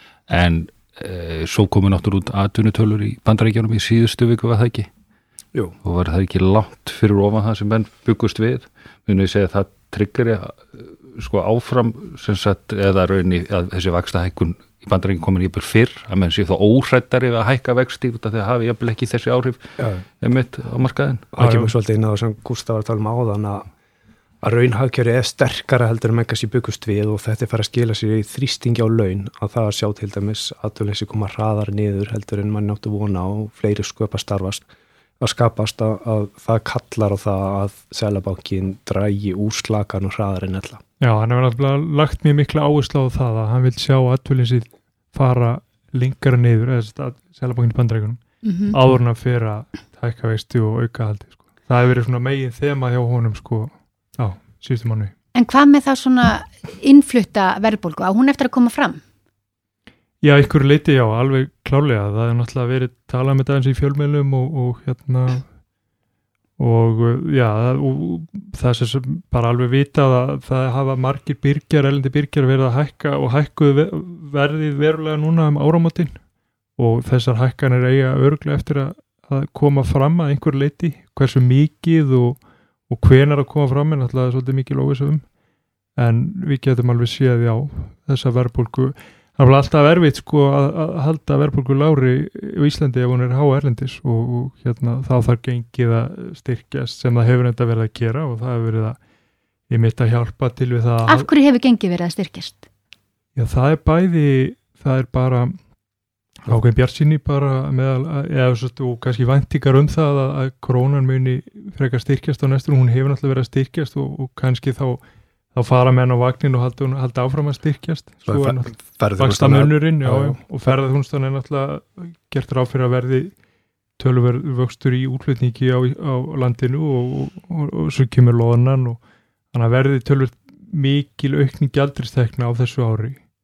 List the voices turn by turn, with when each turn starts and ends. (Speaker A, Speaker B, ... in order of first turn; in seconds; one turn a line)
Speaker A: 0.3-4.9
Speaker A: 5.8-19.6
Speaker A: 20.2-21.3
Speaker B: 21.3-23.6
Speaker C: 21.4-21.7
Speaker B: 24.4-34.6
Speaker B: 35.2-40.8
Speaker C: 41.0-55.1
Speaker D: 48.4-48.8
Speaker D: 55.3-59.0
Speaker C: 60.2-65.5
Speaker C: 66.6-76.2
Speaker C: 76.8-85.2
Speaker C: 86.0-99.0
Speaker C: 99.7-101.3
Speaker D: 101.0-102.6
Speaker C: 103.3-105.5
Speaker C: 106.4-115.0
Speaker C: 115.5-123.3
Speaker B: 118.2-120.4
Speaker C: 124.0-129.0
Speaker C: 129.5-133.2